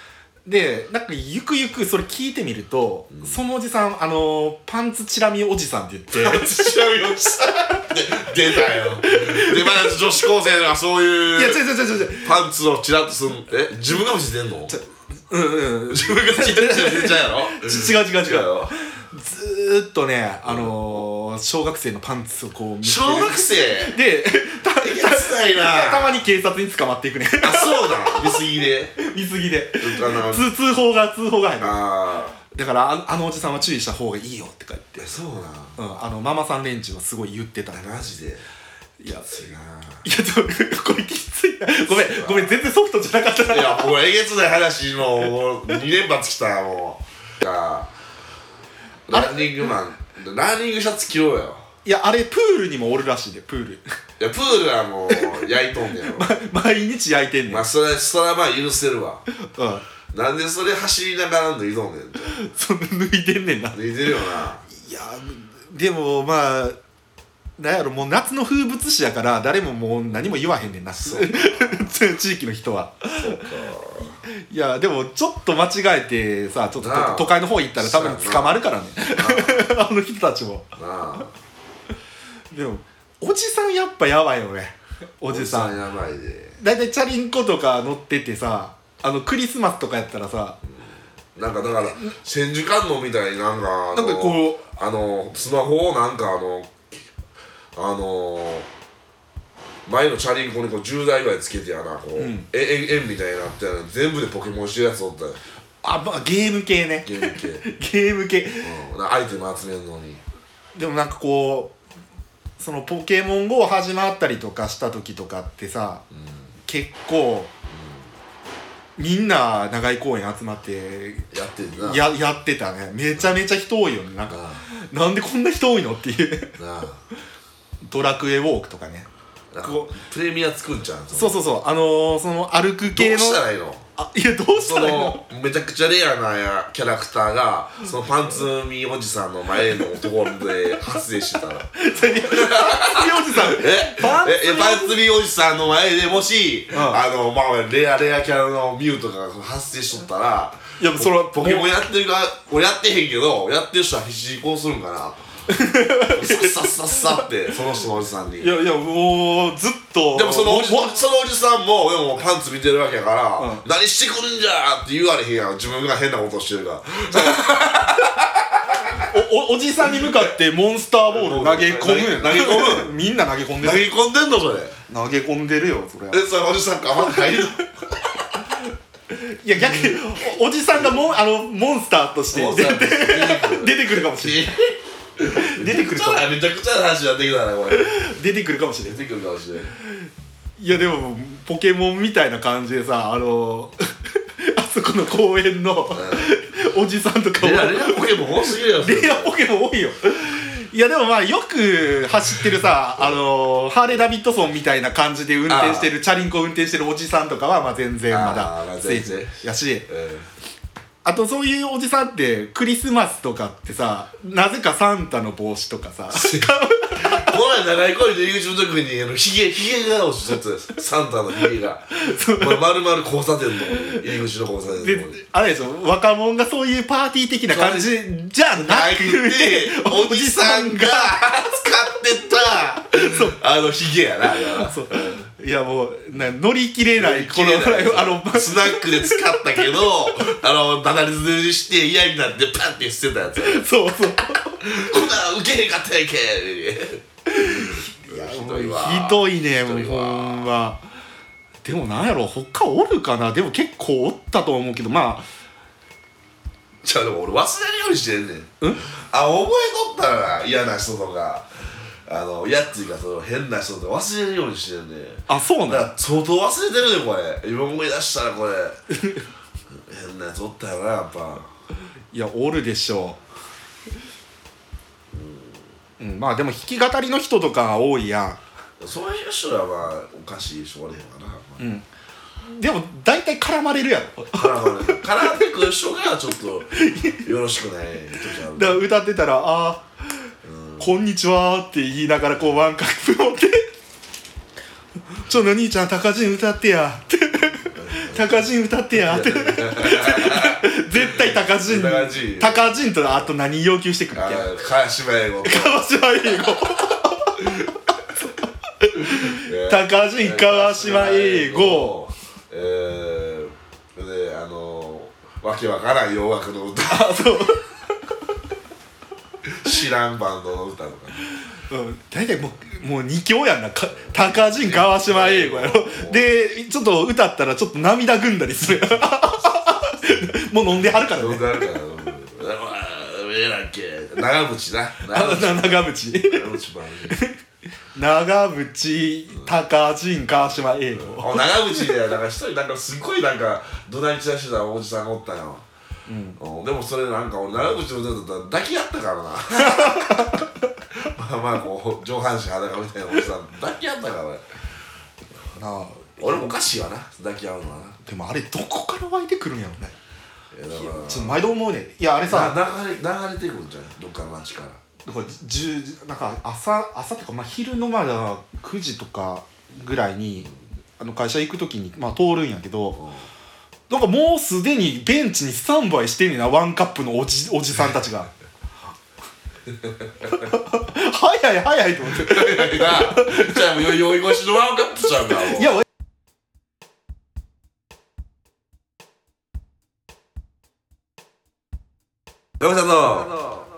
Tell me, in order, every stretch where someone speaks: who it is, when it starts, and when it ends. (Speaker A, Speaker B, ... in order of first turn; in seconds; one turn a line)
Speaker A: 0.5-6.8
Speaker B: 6.1-14.8
Speaker A: 8.6-10.2
Speaker A: 11.3-12.4
Speaker A: 14.7-28.4
Speaker B: 15.9-18.7
Speaker B: 20.4-21.0
Speaker B: 22.8-24.0
Speaker B: 24.8-26.2
Speaker B: 27.4-29.0
Speaker A: 29.0-31.8
Speaker B: 29.8-30.5
Speaker B: 31.6-32.4
Speaker A: 32.5-35.1
Speaker B: 35.0-35.8
Speaker A: 35.8-37.8
Speaker B: 37.7-38.4
Speaker A: 39.0-39.5
Speaker B: 39.3-40.0
Speaker A: 40.0-44.0
Speaker B: 41.9-42.6
Speaker B: 43.5-47.9
Speaker B: 49.1-51.6
Speaker A: 49.1-49.7
Speaker A: 51.9-53.8
Speaker B: 54.2-56.3
Speaker A: 55.1-57.6
Speaker B: 57.5-59.2
Speaker A: 59.4-59.9
Speaker B: 60.1-62.4
Speaker A: 62.3-63.8
Speaker B: 63.7-64.7
Speaker A: 64.7-66.8
Speaker A: 67.6-73.5
Speaker B: 70.9-71.9
Speaker B: 73.1-74.2
Speaker A: 74.3-80.7
Speaker B: 76.8-79.7
Speaker B: 80.8-81.3
Speaker A: 82.5-85.8
Speaker B: 85.3-86.6
Speaker A: 86.6-90.6
Speaker B: 91.4-96.8
Speaker A: 93.9-94.6
Speaker B: 97.8-98.7
Speaker B: 99.9-105.4
Speaker A: 102.2-102.5
Speaker A: 105.8-108.8
Speaker B: 107.0-107.6
Speaker B: 108.6-110.2
Speaker A: 110.8-111.7
Speaker A: 112.6-116.0
Speaker B: 116.1-116.5
Speaker A: 116.7-117.5
Speaker B: 117.7-118.0
Speaker A: 119.0-126.5
Speaker B: 121.3-122.0
Speaker B: 124.3-124.6
Speaker B: 126.6-127.0
Speaker A: 127.9-129.1
Speaker B: 129.5-131.4
Speaker A: 129.6-129.9
Speaker A: 131.1-133.4
Speaker B: 132.9-133.8
Speaker A: 134.0-135.2
Speaker B: 134.5-155.2
Speaker A: 141.8-145.0
Speaker A: 146.7-147.0
Speaker A: 150.8-151.8
Speaker A: 155.5-157.2
Speaker B: 156.0-158.5
Speaker A: 158.4-161.0
Speaker B: 160.1-168.9
Speaker A: 163.4-163.6
Speaker A: 167.2-167.4
Speaker A: 169.0-173.9
Speaker B: 171.1-172.9
Speaker B: 173.6-174.8
Speaker A: 174.9-176.2
Speaker B: 176.1-177.7
Speaker A: 179.1-184.5
Speaker B: 182.3-187.9
Speaker A: 185.3-186.3
Speaker A: 187.7-189.0
Speaker B: 188.8-189.7
Speaker A: 190.6-193.8
Speaker A: 194.4-209.9
Speaker B: 195.9-196.3
Speaker B: 197.4-199.4
Speaker B: 205.5-205.9
Speaker B: 208.1-210.3
Speaker A: 211.1-217.3
Speaker B: 216.1-225.2
Speaker A: 221.9-222.7
Speaker A: 223.7-224.0
Speaker A: 224.7-231.5
Speaker B: 227.5-228.0
Speaker B: 228.5-235.2
Speaker A: 232.9-233.4
Speaker A: 234.4-240.2
Speaker B: 236.9-243.7
Speaker A: 243.4-244.6
Speaker B: 244.6-250.5
Speaker A: 247.3-250.8
Speaker A: 251.6-255.3
Speaker B: 256.8-261.5
Speaker B: 262.1-268.8
Speaker A: 265.3-265.9
Speaker B: 269.8-271.5
Speaker A: 272.1-273.2
Speaker B: 275.1-275.6
Speaker A: 276.0-278.4
Speaker B: 278.8-281.7
Speaker A: 281.6-281.9
Speaker A: 282.4-285.1
Speaker B: 284.3-288.8
Speaker A: 286.7-287.2
Speaker A: 288.5-289.9
Speaker B: 290.4-290.9
Speaker A: 290.8-293.7
Speaker A: 295.2-304.5
Speaker B: 297.7-300.6
Speaker B: 301.6-302.8
Speaker B: 304.1-305.8
Speaker A: 305.4-307.7
Speaker A: 308.8-312.0
Speaker B: 309.3-317.3
Speaker A: 316.8-317.6
Speaker B: 319.5-321.3
Speaker A: 321.7-331.7
Speaker B: 324.0-326.2
Speaker B: 331.1-337.2
Speaker A: 335.0-336.5
Speaker A: 337.1-337.4
Speaker A: 337.9-342.0
Speaker B: 341.0-345.6
Speaker A: 346.1-346.4
Speaker B: 346.4-350.4
Speaker A: 349.7-350.4
Speaker B: 351.0-354.4
Speaker A: 355.5-356.5
Speaker B: 356.2-358.0
Speaker A: 358.0-359.9
Speaker B: 360.5-361.4
Speaker A: 360.7-362.6
Speaker B: 362.2-364.8
Speaker A: 365.1-373.0
Speaker B: 373.0-373.3
Speaker A: 373.9-378.3
Speaker A: 380.3-383.4
Speaker B: 382.1-385.8
Speaker A: 385.6-385.8
Speaker B: 392.6-393.4